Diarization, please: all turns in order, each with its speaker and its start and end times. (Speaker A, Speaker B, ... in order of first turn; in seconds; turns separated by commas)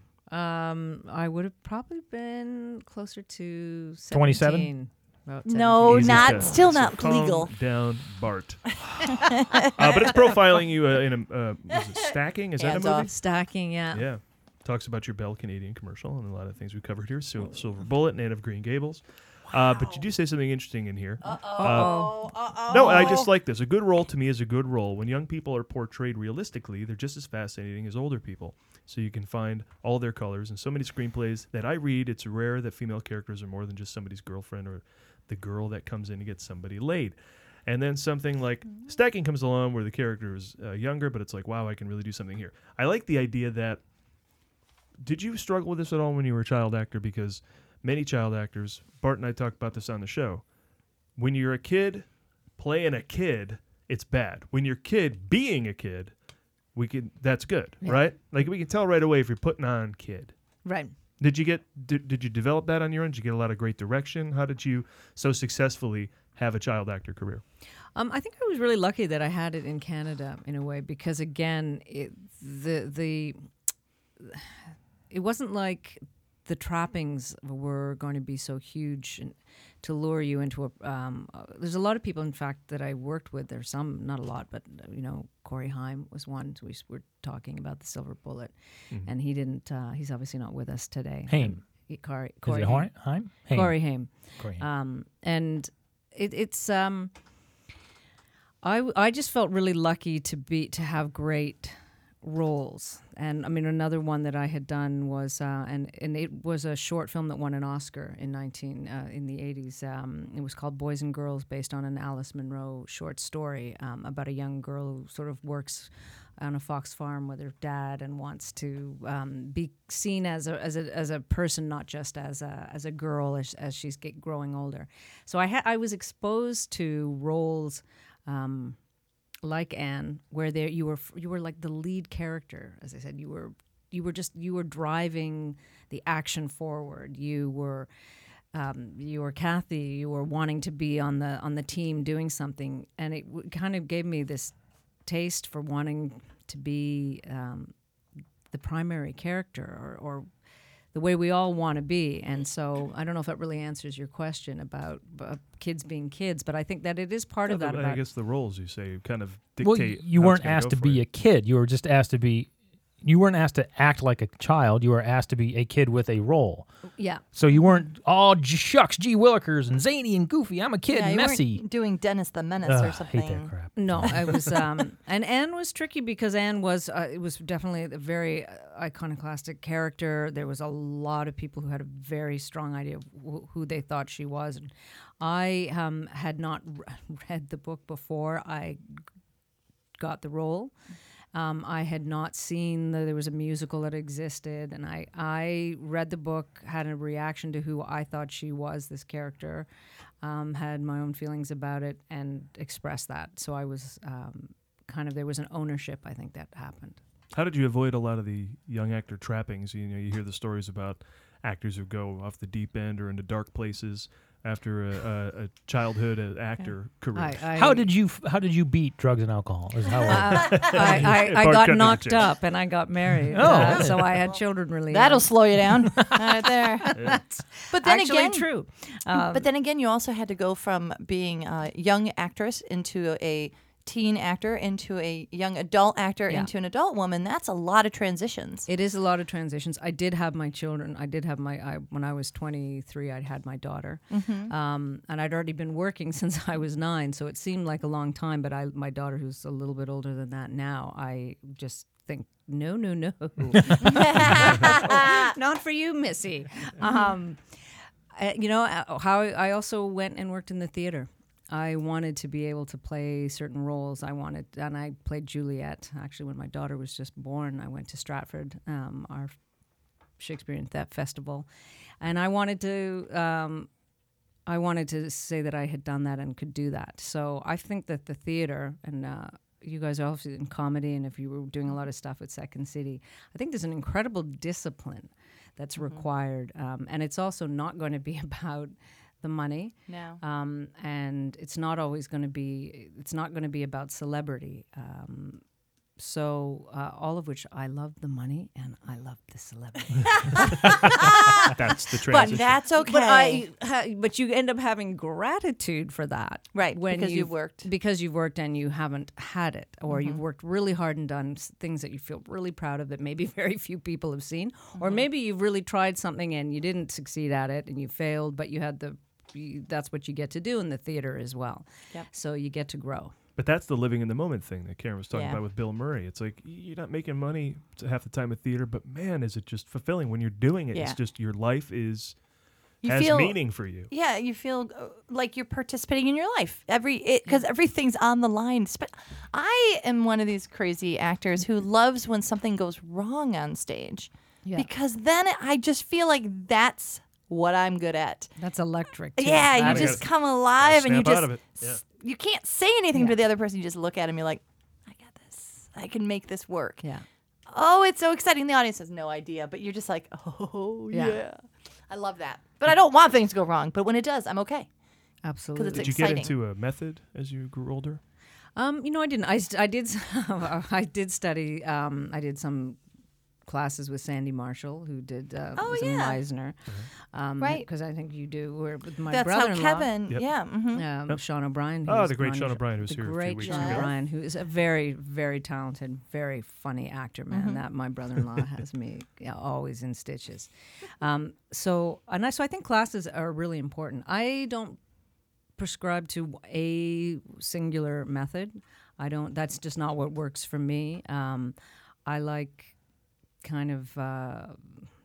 Speaker A: 0.3-6.5, Speaker B: 4.1-4.7, Speaker C: 5.5-7.5, Speaker D: 5.9-8.7, Speaker C: 9.2-10.3, Speaker D: 9.7-13.1, Speaker C: 12.6-13.1, Speaker A: 13.1-14.1, Speaker D: 13.9-43.8, Speaker C: 19.7-20.0, Speaker C: 21.2-23.3, Speaker A: 21.5-23.3, Speaker D: 45.0-50.4, Speaker D: 51.2-52.1, Speaker D: 52.6-56.1, Speaker D: 56.8-60.3, Speaker A: 57.8-58.1, Speaker A: 60.6-60.9, Speaker D: 61.2-67.4, Speaker A: 68.0-73.4, Speaker A: 75.1-97.1, Speaker B: 91.3-91.6, Speaker B: 92.4-94.7, Speaker A: 98.6-128.8, Speaker A: 129.4-137.9, Speaker A: 138.5-144.5, Speaker A: 145.1-147.7, Speaker A: 148.5-150.3, Speaker A: 150.9-158.0, Speaker D: 157.4-161.0, Speaker B: 159.6-162.5, Speaker B: 163.0-166.7, Speaker A: 167.0-167.2, Speaker B: 167.3-171.6, Speaker C: 170.9-173.5, Speaker B: 172.7-174.3, Speaker A: 173.8-184.7, Speaker A: 185.2-188.8, Speaker A: 190.0-190.7, Speaker A: 191.3-199.7, Speaker A: 200.2-207.0, Speaker D: 207.3-217.5, Speaker A: 217.1-217.9, Speaker B: 217.6-220.9, Speaker A: 220.0-225.6, Speaker D: 220.1-222.4, Speaker B: 223.3-224.2, Speaker D: 223.4-223.9, Speaker C: 224.9-226.9, Speaker A: 226.8-229.5, Speaker D: 226.9-227.2, Speaker C: 227.7-228.5, Speaker C: 229.1-238.7, Speaker A: 238.7-257.4, Speaker C: 244.1-244.5, Speaker C: 253.8-255.3, Speaker A: 258.1-269.3, Speaker A: 270.2-271.5, Speaker A: 272.0-273.7, Speaker A: 274.5-295.4, Speaker C: 285.8-286.1, Speaker C: 289.9-290.2, Speaker A: 296.0-323.1, Speaker D: 301.0-302.6, Speaker C: 302.1-303.5, Speaker C: 306.5-307.7, Speaker C: 309.9-310.2, Speaker C: 314.8-315.1, Speaker D: 323.4-332.2, Speaker C: 325.1-325.4, Speaker C: 332.8-348.3, Speaker D: 332.8-333.9, Speaker A: 348.4-350.0, Speaker C: 349.2-356.8, Speaker D: 349.5-351.8, Speaker A: 352.9-353.2, Speaker A: 356.8-357.1, Speaker C: 357.5-364.7, Speaker A: 360.9-361.2, Speaker A: 365.2-366.2, Speaker C: 365.5-366.4, Speaker D: 365.8-368.0, Speaker A: 368.6-372.8, Speaker A: 373.5-376.6, Speaker C: 375.6-376.2, Speaker A: 377.1-380.0, Speaker C: 377.4-377.7, Speaker C: 379.1-380.9, Speaker A: 380.7-390.5, Speaker D: 381.8-383.9, Speaker C: 383.4-383.9, Speaker C: 387.3-387.6, Speaker A: 391.0-394.8, Speaker A: 395.6-402.8, Speaker A: 403.4-404.8